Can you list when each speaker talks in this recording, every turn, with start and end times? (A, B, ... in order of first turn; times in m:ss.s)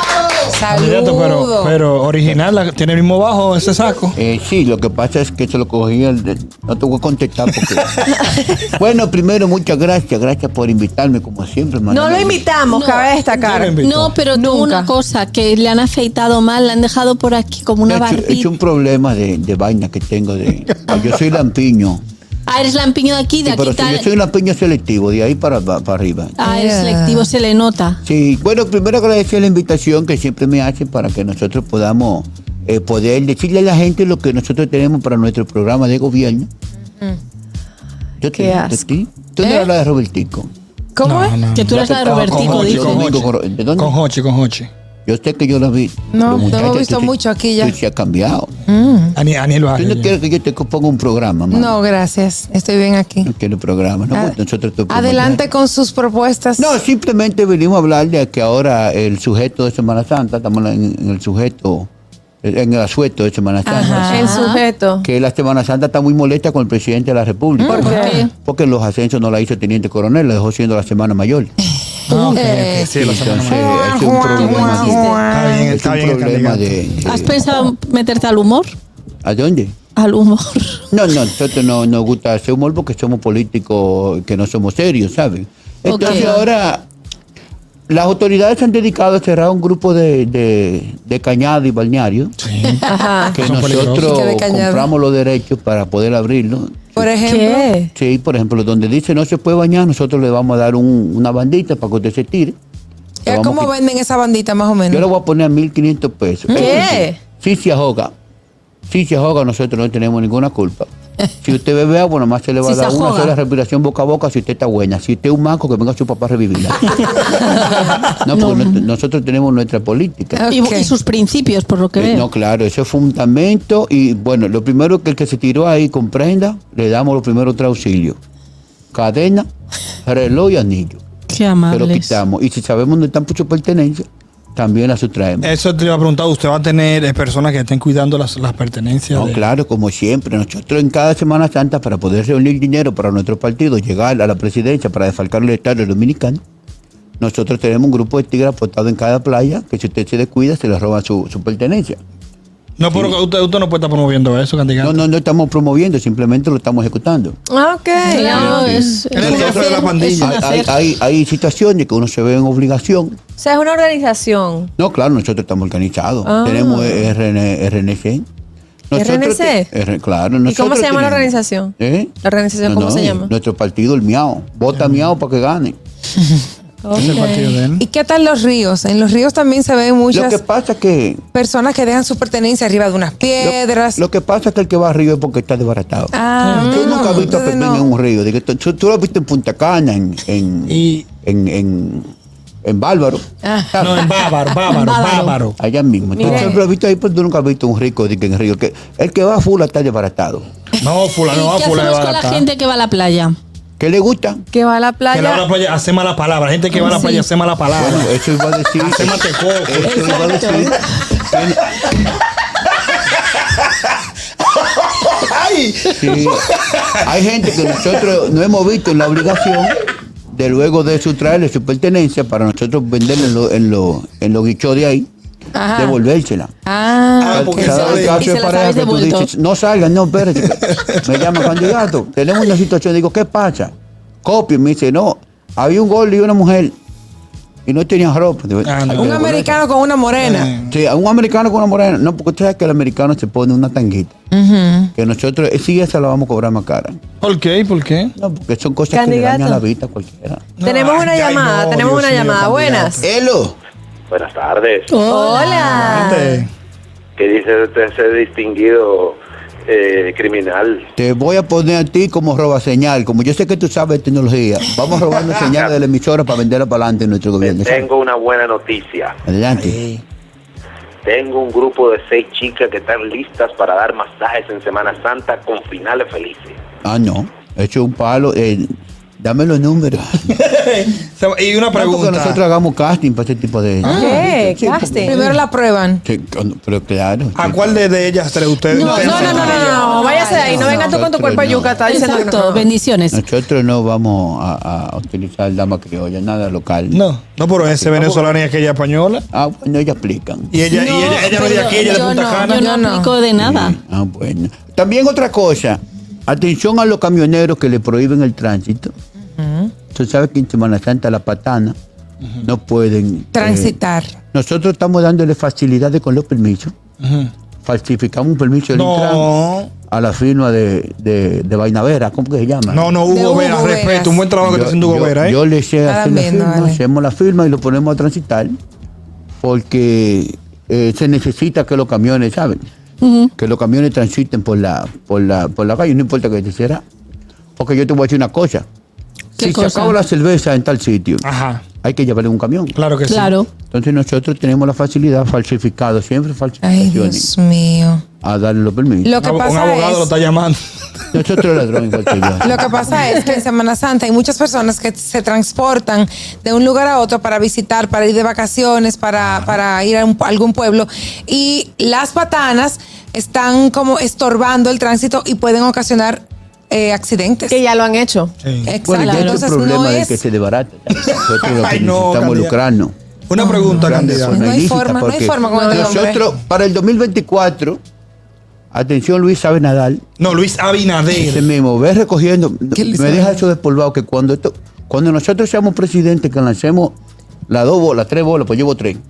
0:00.5-0:01.8 A
0:00.7-0:04.2 B
0:04.1-0:08.0 C
0:07.6-0:08.2 B
0:08.7-0:12.4 C
0:11.9-0:14.9 D
0:12.7-0:13.2 E
0:13.3-0:14.2 B
0:13.8-0:18.5 E
0:17.8-0:22.0 C
0:22.5-0:24.1 E
0:23.4-0:26.4 C
0:26.4-0:28.0 E
0:26.4-0:27.3 A
0:28.0-0:36.5 C
0:38.2-0:40.5 C
0:38.3-0:38.8 D
0:39.4-0:39.7 A
0:41.0-0:41.4 A
0:41.0-0:41.7 B
0:41.5-0:43.1 E
0:41.7-0:44.0 C
0:42.3-0:44.7 B
0:45.0-0:48.5 C
0:46.1-0:47.7 A
0:48.7-0:49.2 A
0:49.2-0:50.1 B
0:49.8-0:51.8 C
0:51.5-0:53.3 A
0:53.2-0:55.4 C
0:54.1-0:54.4 A
0:54.9-0:56.7 A
0:56.6-1:01.9 C
1:02.4-1:04.4 C
1:03.6-1:04.6 A
1:04.1-1:05.0 D
1:05.0-1:11.5 C
1:07.6-1:08.2 A
1:07.7-1:08.1 D
1:07.8-1:08.3 E
1:12.1-1:13.7 B
1:12.1-1:15.7 A
1:12.9-1:17.4 C
1:14.4-1:16.8 B
1:14.7-1:15.3 E
1:17.0-1:18.7 E
1:19.2-1:19.7 C
1:20.0-1:20.8 E
1:20.9-1:26.8 C
1:25.8-1:26.4 E
1:27.9-1:32.3 C
1:32.4-1:34.1 B
1:32.9-1:33.4 D
1:33.3-1:37.1 C
1:34.0-1:34.9 A
1:37.0-1:37.7 A
1:37.2-1:37.9 D
1:37.9-1:42.5 C
1:43.2-1:45.1 A
1:43.3-1:43.7 C
1:44.9-1:48.1 C
1:46.5-1:47.2 D
1:48.9-1:50.9 C
1:51.4-2:00.4 C
1:52.6-1:53.3 E
1:58.3-1:58.8 E
2:00.3-2:00.9 A
2:00.5-2:02.3 E
2:02.0-2:08.2 C
2:08.9-2:09.4 C
2:10.0-2:11.0 C
2:11.3-2:12.2 E
2:11.7-2:15.5 C
2:15.4-2:19.4 B
2:19.1-2:26.4 C
2:27.2-2:32.0 C
2:32.8-2:35.0 B
2:32.9-2:33.2 C
2:34.8-2:37.4 C
2:37.5-2:38.7 D
2:38.0-2:40.8 E
2:38.2-2:43.2 C
2:39.1-2:40.4 B
2:43.4-2:44.7 D
2:44.8-2:48.2 C
2:46.2-2:47.1 D
2:48.9-2:52.1 C
2:48.9-2:49.7 D
2:50.5-2:53.3 D
2:52.6-2:55.8 C
2:54.7-2:55.1 B
2:56.8-2:57.5 D
2:56.9-2:57.8 B
2:57.7-3:00.4 A
3:00.1-3:01.2 C
3:01.3-3:04.0 A
3:03.4-3:12.1 C
3:06.1-3:07.9 A
3:10.7-3:11.0 B
3:12.6-3:14.0 C
3:13.4-3:14.0 A
3:13.8-3:15.6 B
3:14.6-3:15.4 E
3:15.6-3:20.4 C
3:16.1-3:16.6 D
3:16.2-3:16.6 B
3:20.8-3:22.5 B
3:21.2-3:23.4 E
3:23.8-3:24.4 C
3:24.5-3:25.4 D
3:25.1-3:28.1 B
3:26.8-3:27.2 E
3:27.7-3:31.8 C
3:28.8-3:30.3 B
3:29.8-3:30.7 E
3:33.4-3:33.6 B
3:34.7-3:38.1 B
3:36.0-3:36.5 C
3:37.0-3:45.1 C
3:45.5-3:46.0 A
3:45.7-3:46.5 C
3:46.6-3:47.9 A
3:47.2-3:48.3 B
3:47.3-3:53.7 C
3:47.8-3:49.3 E
3:50.4-3:51.7 B
3:54.2-3:56.7 C
3:57.6-3:59.6 C
3:58.6-3:59.2 B
3:59.0-4:00.5 A
4:00.2-4:00.7 B
4:00.7-4:04.2 C
4:04.3-4:04.9 A
4:05.0-4:07.0 C
4:07.2-4:08.1 B
4:08.2-4:10.5 C
4:08.9-4:09.6 D
4:10.6-4:13.1 B
4:10.6-4:13.0 D
4:13.0-4:13.6 C
4:14.1-4:14.9 F
4:14.9-4:16.0 E
4:15.0-4:16.4 D
4:15.5-4:16.5 B
4:17.2-4:20.9 F
4:21.0-4:27.9 C
4:27.4-4:29.1 F
4:29.2-4:29.8 C
4:29.6-4:30.0 B
4:31.0-4:36.6 F
4:36.8-4:40.2 C
4:40.3-4:42.4 B
4:41.7-4:45.4 C
4:43.8-4:44.1 B
4:43.8-4:44.2 A
4:43.9-4:45.2 D
4:45.0-4:46.0 A
4:46.0-4:47.8 C
4:47.4-4:49.9 B
4:48.7-4:49.6 E
4:48.7-4:51.0 A
4:49.2-4:49.6 C
4:49.4-4:52.7 D
4:50.3-4:51.8 C
4:51.8-4:53.2 E
4:53.1-4:57.0 C
4:56.9-4:59.2 B
4:57.6-4:58.4 C
4:59.3-5:00.5 C
5:00.5-5:02.6 B
5:00.7-5:03.1 A
5:00.9-5:03.8 E
5:03.4-5:08.9 C
5:09.4-5:09.7 A
5:09.9-5:11.7 C
5:12.4-5:13.8 C
5:13.3-5:14.2 A
5:14.3-5:16.7 C
5:17.0-5:17.3 B
5:17.6-5:19.3 C
5:18.7-5:19.7 B
5:19.9-5:22.9 C
5:22.7-5:25.4 B
5:23.0-5:24.2 A
5:24.4-5:28.6 C
5:25.8-5:26.8 A
5:29.4-5:32.7 C
5:33.0-5:33.3 E
5:33.4-5:36.8 C
5:37.6-5:38.6 C
5:39.4-5:40.0 E
5:39.4-5:41.2 C
5:41.2-5:41.6 B
5:41.8-5:42.8 C
5:42.8-5:43.3 B
5:43.0-5:43.5 E
5:43.6-5:47.3 C
5:46.6-5:48.0 A
5:48.2-5:49.1 C
5:49.0-5:50.1 A
5:49.2-5:52.3 B
5:51.1-5:53.1 C
5:52.4-6:07.6 A
5:59.2-5:59.6 B
6:07.5-6:08.3 D
6:08.4-6:08.8 B
6:08.6-6:10.2 A
6:08.8-6:12.9 C
6:08.8-6:09.5 E
6:11.0-6:12.5 B
6:13.3-6:14.4 B
6:13.3-6:16.2 A
6:13.6-6:17.8 C
6:15.4-6:16.0 D
6:18.7-6:20.0 C
6:20.2-6:21.4 B
6:21.1-6:26.9 C
6:22.7-6:23.4 A
6:27.5-6:29.0 C